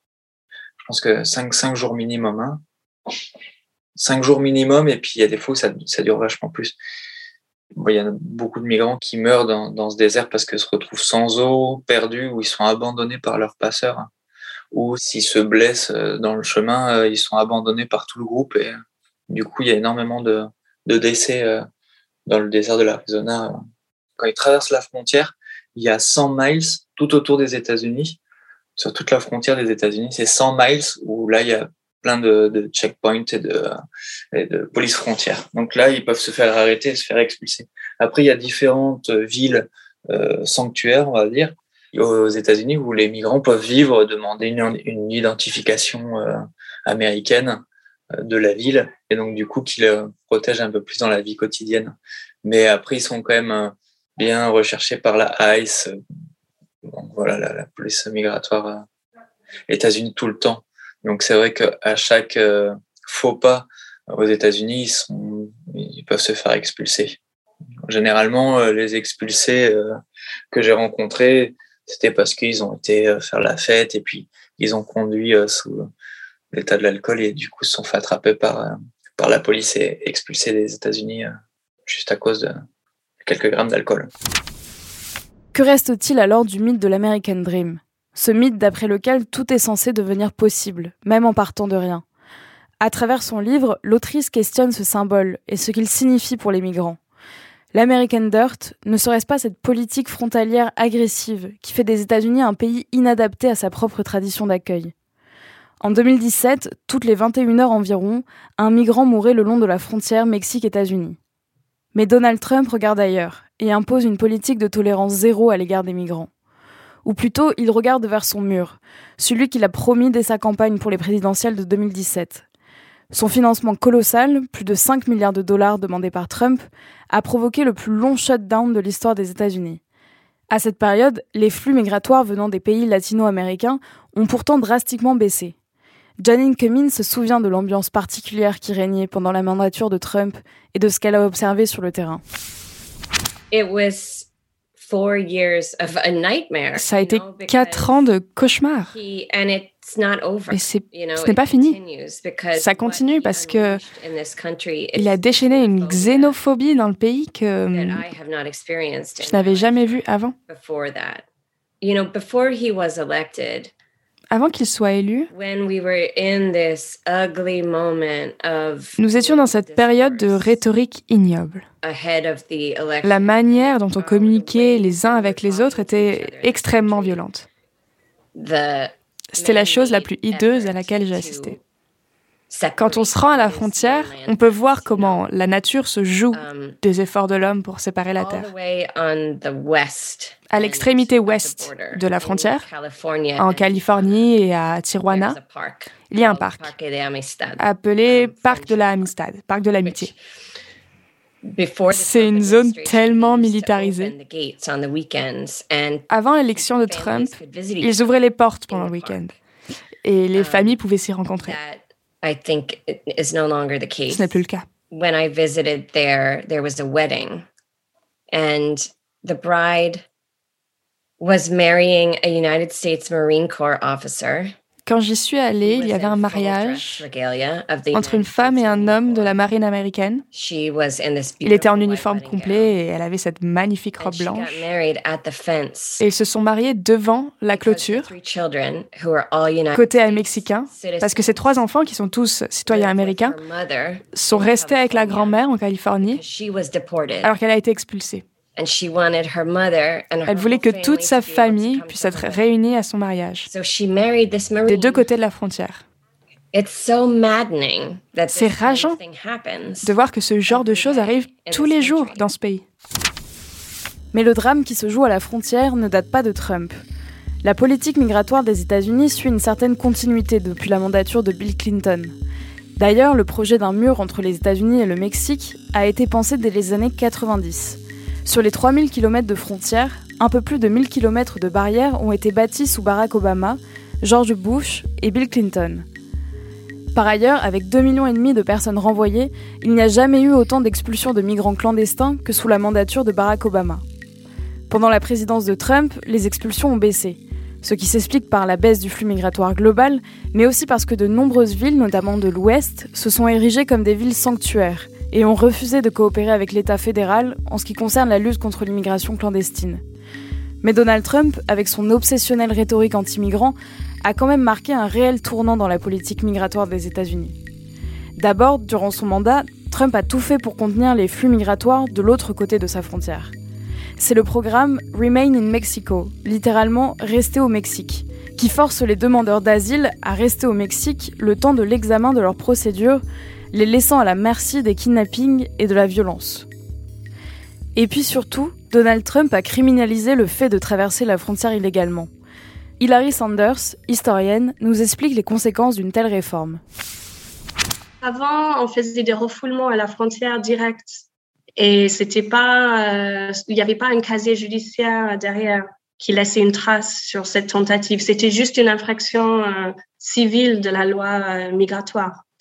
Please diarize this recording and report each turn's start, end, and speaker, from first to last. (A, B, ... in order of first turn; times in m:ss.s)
0:00.8-0:02.6 A
0:04.0-0:06.8 A
0:07.8-0:14.1 A
0:14.7-0:18.8 A
0:19.3-0:21.6 A
0:22.3-0:23.6 A
0:24.2-0:28.2 A
0:28.8-0:33.7 A
0:34.3-0:47.6 A
0:48.2-0:55.9 A
0:56.8-0:58.8 A
0:59.7-1:07.2 A
1:07.8-1:09.9 A
1:10.5-1:15.9 A
1:16.5-1:21.3 A
1:21.8-1:22.5 A
1:23.2-1:24.1 A
1:25.5-1:32.0 B
1:32.8-1:37.0 B
1:37.7-1:44.9 B
1:45.8-1:51.2 B
1:51.9-1:56.3 B
1:57.0-2:02.4 B
2:03.1-2:09.8 B
2:10.5-2:15.5 B
2:16.2-2:22.2 B
2:23.5-2:28.0 C
2:26.8-2:28.9 D
2:28.9-2:36.4 C
2:30.5-2:31.8 D
2:32.5-2:33.8 D
2:34.9-2:38.0 D
2:37.7-2:41.2 C
2:39.2-2:40.3 D
2:41.8-2:43.7 C
2:44.3-2:45.3 D
2:45.3-2:50.6 C
2:49.0-2:51.6 D
2:51.8-2:57.2 C
2:53.0-2:57.4 D
2:58.3-3:01.6 C
2:59.3-3:01.6 D
3:02.5-3:05.3 C
3:02.8-3:08.5 D
3:06.3-3:06.8 C
3:08.2-3:14.3 C
3:10.5-3:12.6 D
3:13.4-3:15.4 D
3:15.0-3:19.1 C
3:16.1-3:16.7 D
3:17.6-3:20.1 D
3:19.8-3:20.2 C
3:21.4-3:29.3 C
3:21.9-3:24.1 D
3:26.1-3:29.3 D
3:30.0-3:31.6 D
3:30.3-3:30.8 C
3:31.4-3:34.4 C
3:34.1-3:34.6 D
3:34.9-3:37.4 C
3:38.3-3:40.0 C
3:41.2-3:44.5 C
3:44.8-3:47.0 D
3:45.6-3:49.4 C
3:47.9-3:50.2 D
3:50.3-3:52.7 C
3:51.4-3:54.6 D
3:54.0-3:56.0 C
3:56.0-3:58.1 D
3:57.5-4:01.6 C
3:59.7-4:03.4 D
4:02.7-4:05.4 C
4:04.1-4:06.2 D
4:06.0-4:07.3 C
4:07.2-4:08.2 D
4:08.6-4:12.5 C
4:10.2-4:13.5 D
4:13.4-4:15.0 C
4:14.7-4:15.8 D
4:16.5-4:19.9 C
4:18.3-4:19.0 D
4:19.8-4:22.6 D
4:20.5-4:22.2 C
4:24.1-4:26.8 B
4:27.4-4:32.1 B
4:32.8-4:45.8 B
4:46.9-4:53.8 B
4:54.7-5:09.8 B
5:10.6-5:17.3 B
5:18.2-5:23.3 B
5:24.0-5:36.5 B
5:37.8-5:42.1 B
5:42.8-5:46.6 B
5:48.0-5:51.0 E
5:51.6-6:02.2 E